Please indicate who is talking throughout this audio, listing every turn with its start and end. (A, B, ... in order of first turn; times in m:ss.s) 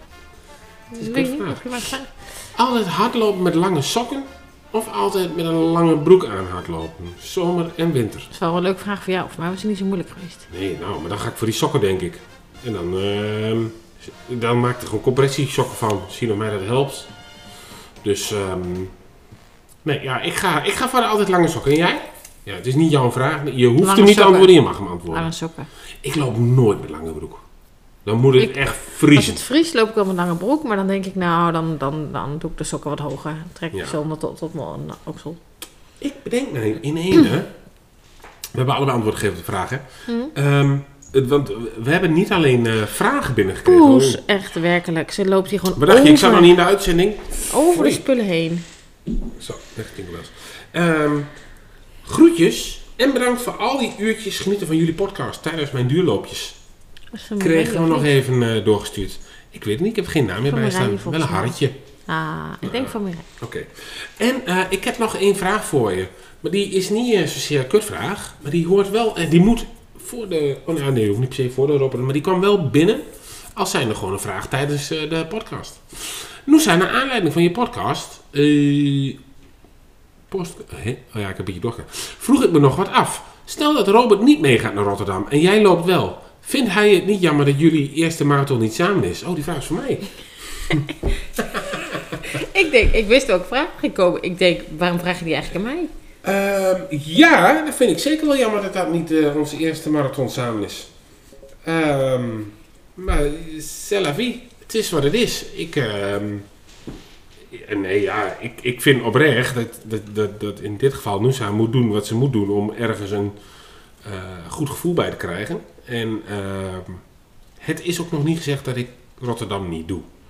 0:00.9-0:02.1 A
0:01.0-0:02.0 B
0:02.5-0:08.3 B
0:08.3-0:10.5 A
0:10.5-0:17.1 B
0:18.0-0:18.9 B
0:19.8-0:25.3 B
0:23.8-0:25.7 A
0:26.0-0:27.4 B
0:28.0-0:29.4 B
0:28.4-0:35.4 A
0:36.0-0:37.5 B
0:38.5-0:44.2 B
0:40.1-0:40.3 A
0:43.6-0:46.5 A
0:45.8-0:48.0 B
0:47.5-0:48.6 A
0:49.4-0:51.3 B
0:52.0-0:56.6 B
0:57.1-0:58.1 A
0:57.4-1:01.8 B
1:00.5-1:01.6 A
1:02.1-1:03.3 A
1:02.6-1:19.2 B
1:20.3-1:30.8 B
1:31.4-1:32.2 B
1:32.3-1:35.9 A
1:36.2-1:40.9 B
1:41.6-1:46.5 B
1:47.5-1:53.4 B
1:54.0-1:57.0 B
1:57.6-2:00.1 B